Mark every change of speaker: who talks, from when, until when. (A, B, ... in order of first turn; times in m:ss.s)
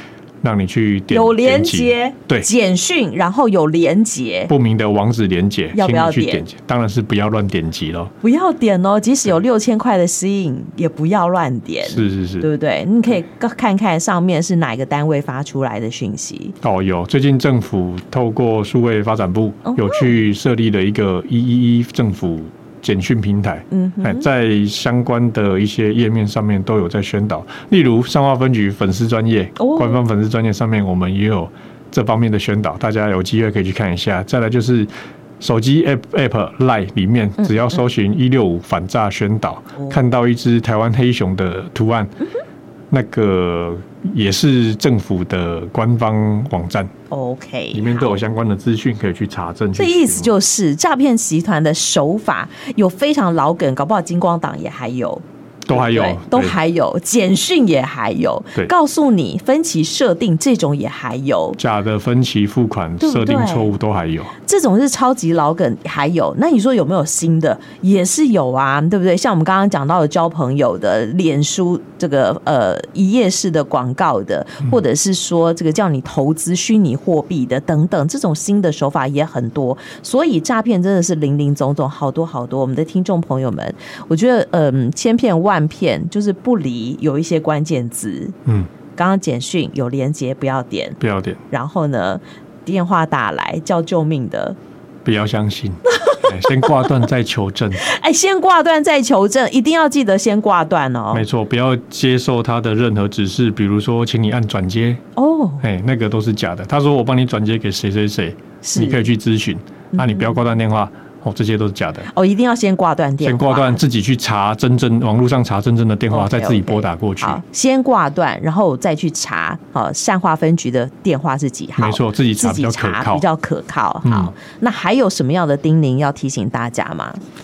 0:00.4-0:02.5 A
0:01.1-0:04.5 B
0:04.5-0:08.1 A
0:05.7-0:06.5 B
0:08.2-0:16.5 B
0:11.8-0:12.5 A
0:16.6-0:42.1 A
0:19.7-0:20.2 B
0:23.7-0:24.2 B
0:29.6-0:30.0 B
0:42.9-0:46.9 A
0:47.1-0:48.1 B
0:47.7-0:50.3 A
0:49.7-1:01.6 B
0:55.7-0:56.6 A
1:01.6-1:04.3 A
1:03.0-1:03.7 B
1:04.4-1:28.4 B
1:29.0-1:31.0 B
1:31.0-1:31.4 A
1:31.5-1:34.6 B
1:35.0-1:37.8 A
1:36.0-1:36.8 B
1:37.8-1:41.2 B
1:41.1-1:45.0 A
1:45.2-1:45.6 B
1:45.6-1:52.1 A
1:48.6-1:49.0 B
1:49.9-1:50.4 B
1:52.1-1:53.8 B
1:53.2-1:57.4 A
1:56.1-2:07.2 B
2:01.8-2:03.2 A
2:04.0-2:04.3 A